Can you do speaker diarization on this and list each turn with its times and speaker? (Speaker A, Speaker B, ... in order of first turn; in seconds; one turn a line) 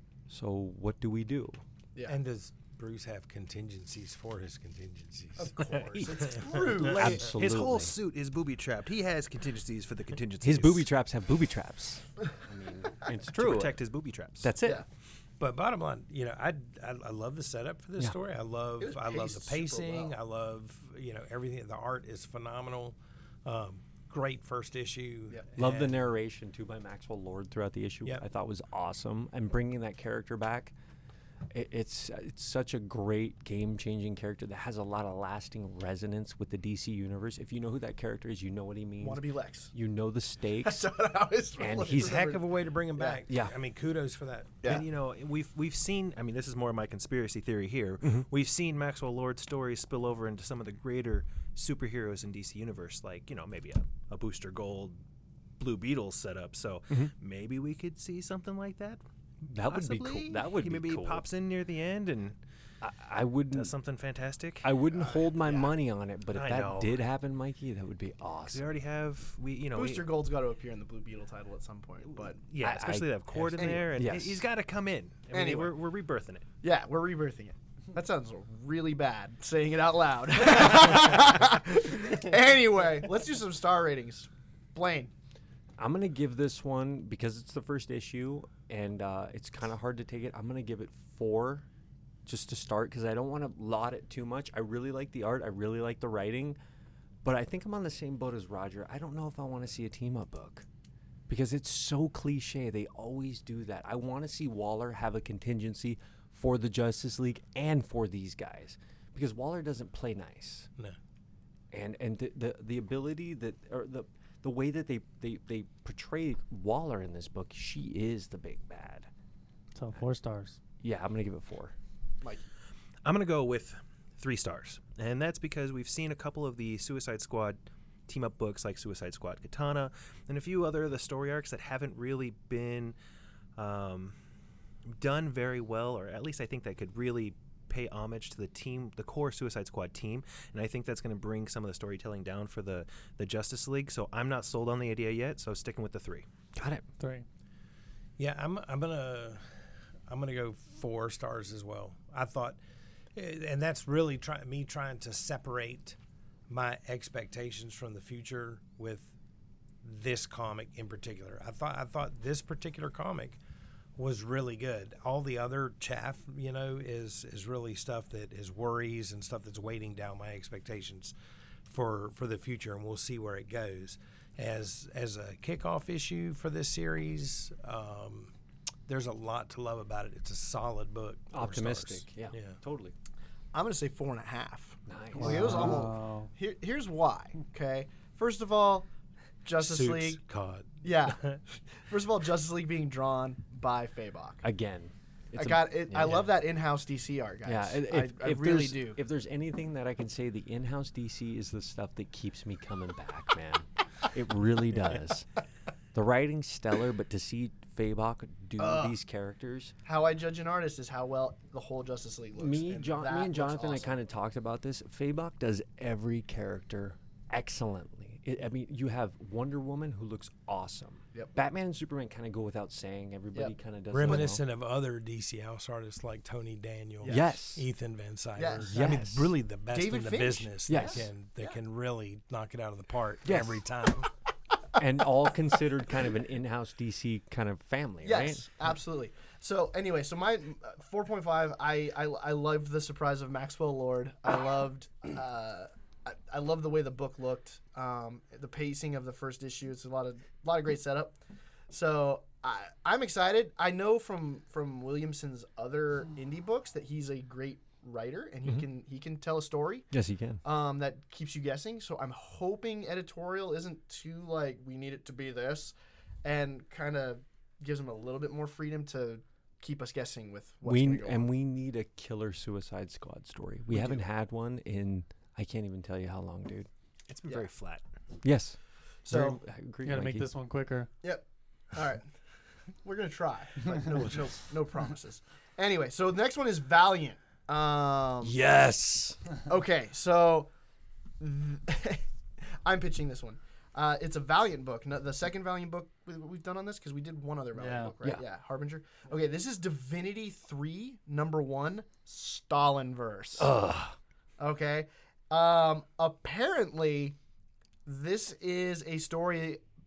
Speaker A: 0.3-1.6
Speaker B: 2.1-6.8
Speaker C: 5.4-7.2
Speaker A: 5.6-7.9
Speaker D: 6.8-10.9
Speaker A: 10.4-13.8
Speaker D: 13.2-14.5
Speaker A: 14.4-14.8
Speaker B: 15.4-25.9
Speaker C: 18.8-20.1
Speaker A: 25.6-30.7
Speaker A: 31.5-40.9
Speaker C: 39.0-39.7
Speaker C: 40.6-43.2
Speaker A: 41.6-42.2
Speaker B: 42.0-44.5
Speaker A: 43.3-43.6
Speaker D: 44.6-55.0
Speaker D: 55.6-59.0
Speaker A: 59.4-61.2
Speaker D: 59.6-62.4
Speaker A: 62.8-63.7
Speaker D: 63.5-64.7
Speaker A: 64.6-68.6
Speaker C: 64.9-65.7
Speaker D: 66.3-67.0
Speaker D: 68.5-70.1
Speaker C: 69.7-72.4
Speaker D: 72.4-76.5
Speaker A: 72.6-73.1
Speaker C: 73.5-73.9
Speaker A: 73.9-74.4
Speaker C: 75.3-75.8
Speaker C: 76.6-85.1
Speaker A: 85.8-91.7
Speaker A: 92.2-96.6
Speaker A: 97.2-100.6
Speaker A: 101.3-110.7
Speaker A: 111.7-119.1
Speaker E: 119.7-120.6
Speaker A: 120.8-121.7
Speaker D: 123.0-132.9
Speaker D: 133.6-134.2
Speaker D: 134.9-146.2
Speaker A: 146.5-146.8
Speaker E: 147.0-147.2
Speaker B: 148.2-149.4
Speaker B: 150.1-152.6
Speaker B: 153.1-156.0
Speaker B: 156.5-159.1
Speaker B: 159.8-163.4
Speaker B: 164.0-171.1
Speaker B: 171.7-178.3
Speaker B: 178.9-182.6
Speaker A: 181.3-182.9
Speaker C: 183.5-188.9
Speaker A: 184.8-185.8
Speaker E: 185.2-186.3
Speaker C: 189.4-190.2
Speaker B: 189.6-191.4
Speaker C: 190.8-194.4
Speaker A: 194.4-196.3
Speaker C: 195.3-199.0
Speaker A: 197.4-205.3
Speaker A: 205.9-209.7
Speaker C: 208.6-208.9
Speaker C: 209.8-213.9
Speaker A: 212.4-224.4
Speaker C: 223.3-224.3
Speaker B: 223.9-234.1
Speaker C: 227.0-227.3
Speaker A: 227.1-227.6
Speaker C: 228.3-228.8
Speaker A: 228.7-229.3
Speaker C: 229.7-231.5
Speaker A: 230.7-231.1
Speaker A: 233.2-233.6
Speaker A: 234.8-238.5
Speaker C: 238.0-251.2
Speaker C: 251.7-259.9
Speaker A: 259.9-260.4
Speaker C: 260.4-271.3
Speaker A: 270.6-276.7
Speaker C: 273.7-274.0
Speaker D: 277.1-277.8
Speaker A: 278.2-278.6
Speaker C: 279.0-279.4
Speaker A: 279.1-280.3
Speaker E: 279.8-280.9
Speaker C: 281.0-282.1
Speaker C: 282.8-288.4
Speaker A: 288.2-289.2
Speaker C: 289.5-290.5
Speaker C: 291.2-292.0
Speaker C: 292.6-303.5
Speaker E: 297.6-297.9
Speaker A: 303.4-303.9
Speaker C: 304.4-307.2
Speaker C: 307.9-309.6